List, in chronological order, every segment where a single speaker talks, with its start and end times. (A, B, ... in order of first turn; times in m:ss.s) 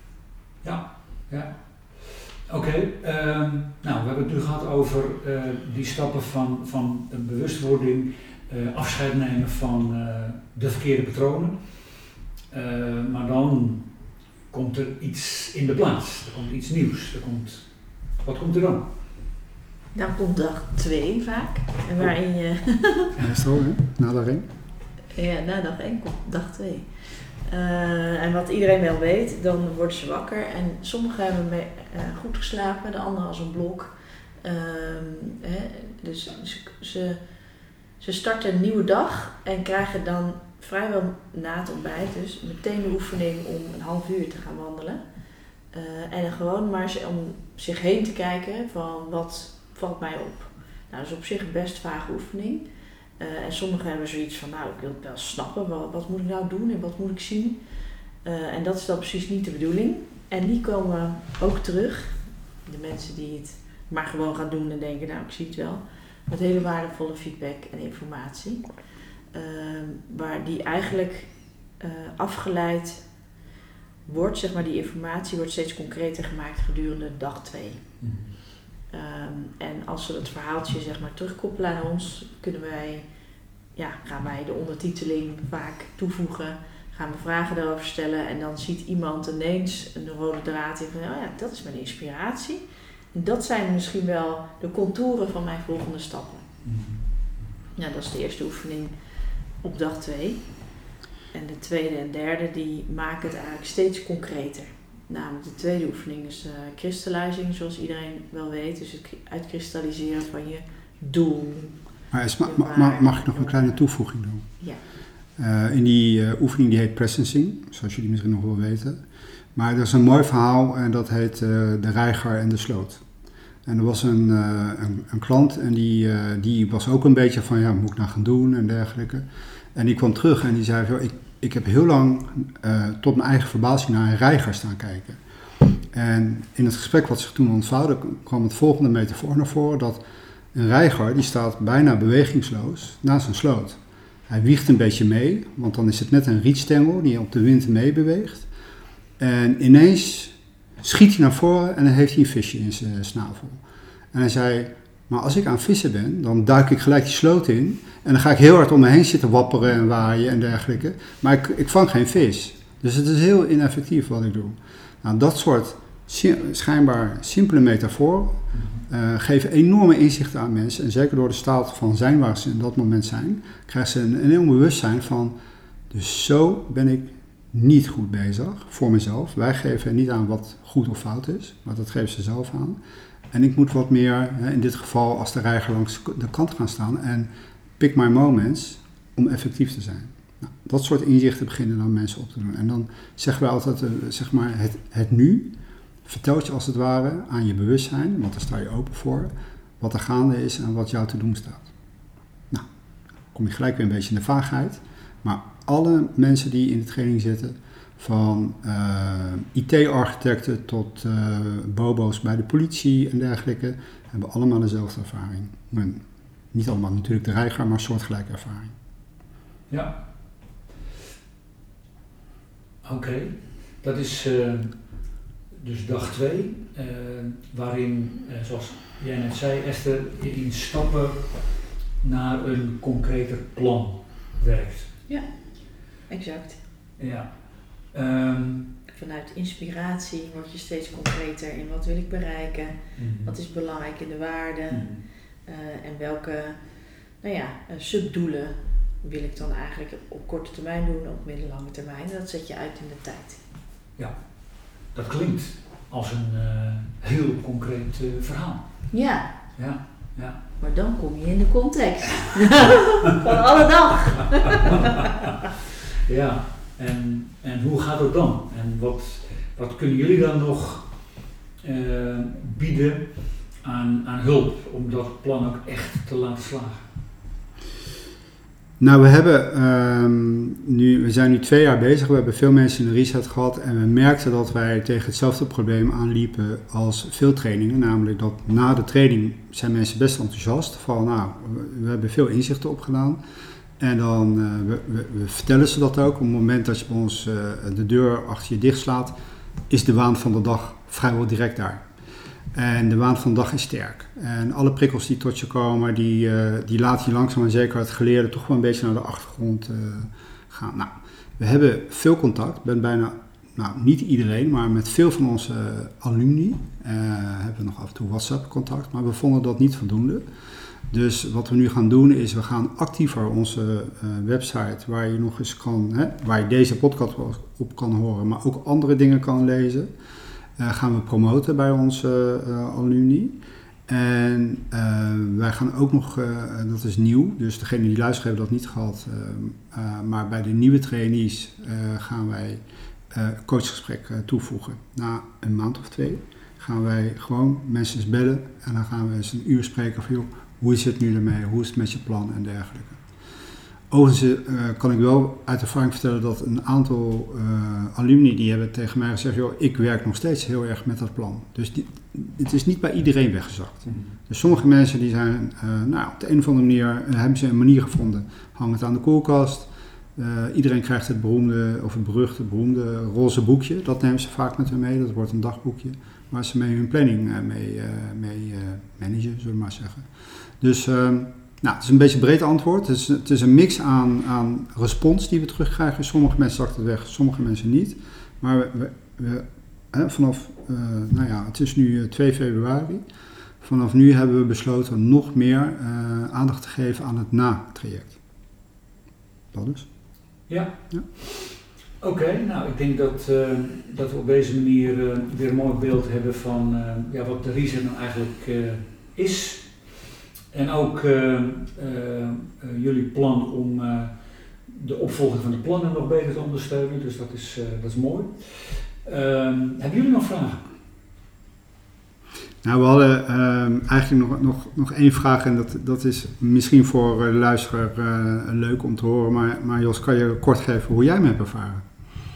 0:00.6-0:11.8 A
0:12.5-0:14.0 A
0:14.5-0:18.8 A
0:19.9-0:23.1 B
0:23.2-0:24.4 C
0:25.1-0:37.2 B
0:38.0-0:45.0 B
0:45.7-0:52.6 B
0:53.2-0:57.6 B
0:58.2-1:08.7 B
1:09.3-1:13.0 B
1:14.0-1:17.8 B
1:18.0-1:18.3 A
1:18.9-1:23.0 B
1:23.8-1:36.4 B
1:36.6-1:37.0 A
1:37.8-1:38.9 B
1:39.6-1:40.5 B
1:41.3-1:51.8 B
1:52.1-1:54.5 C
1:52.4-1:53.6 B
1:55.4-1:59.0 C
1:59.5-2:03.0 C
2:03.6-2:15.2 C
2:15.9-2:20.0 C
2:20.5-2:28.5 C
2:29.2-2:33.6 C
2:34.1-2:55.3 C
2:48.5-2:48.8 A
2:55.9-3:02.8 C
3:03.3-3:15.5 C
3:16.0-3:21.7 C
3:23.3-3:38.7 C
3:39.7-3:40.0 A
3:42.8-3:54.9 A
3:55.1-3:56.6 B
3:57.0-3:58.7 A
3:58.9-4:06.6 B
4:03.0-4:03.3 A
4:04.7-4:05.0 A
4:07.2-4:13.4 B
4:14.0-4:18.9 A
4:18.9-4:19.3 B
4:19.6-4:20.4 A
4:20.6-4:25.0 B
4:26.0-4:36.9 A
4:38.8-4:53.2 C
4:53.8-4:59.1 C
4:59.7-5:01.9 C
5:02.5-5:20.2 C
5:20.9-5:29.9 C
5:30.6-5:33.3 C
5:33.9-5:53.0 C
5:53.9-6:33.0 C
6:03.8-6:04.2 A
6:33.6-6:38.2 C
6:39.5-6:39.9 C
6:40.5-7:00.6 A
7:02.6-7:11.8 C